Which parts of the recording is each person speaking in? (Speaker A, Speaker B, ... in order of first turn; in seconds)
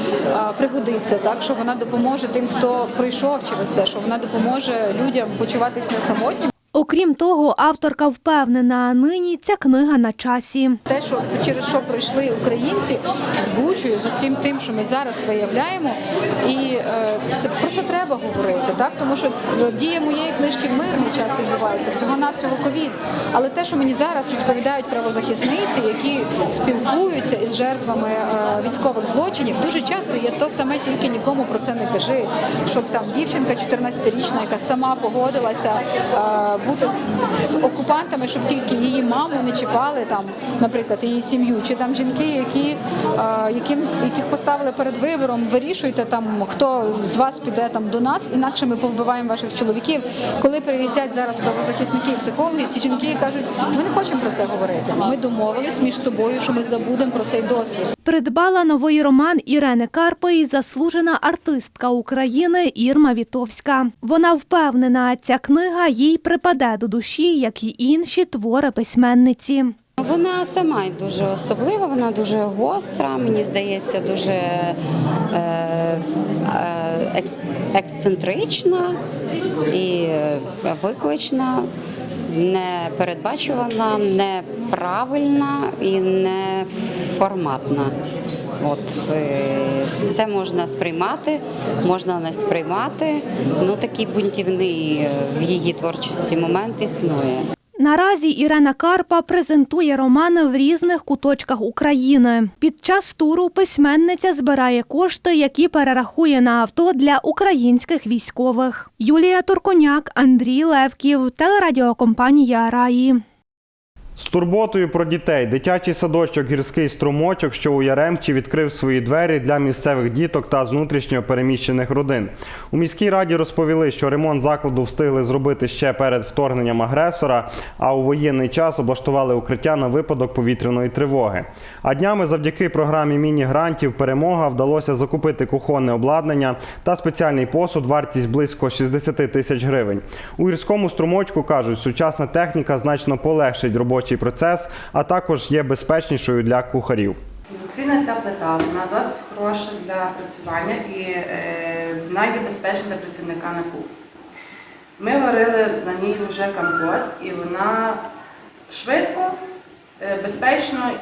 Speaker A: 0.3-6.5, 10.8-57.9
Speaker B: 6.7-10.8, 58.0-69.7, 97.8-113.2
Speaker C: 70.0-74.8, 75.3-79.0, 79.7-81.7, 82.3-87.9, 88.6-97.4
Speaker D: 114.2-147.2
Speaker E: 147.6-153.8, 155.0-158.0, 158.7-159.3, 160.0-160.9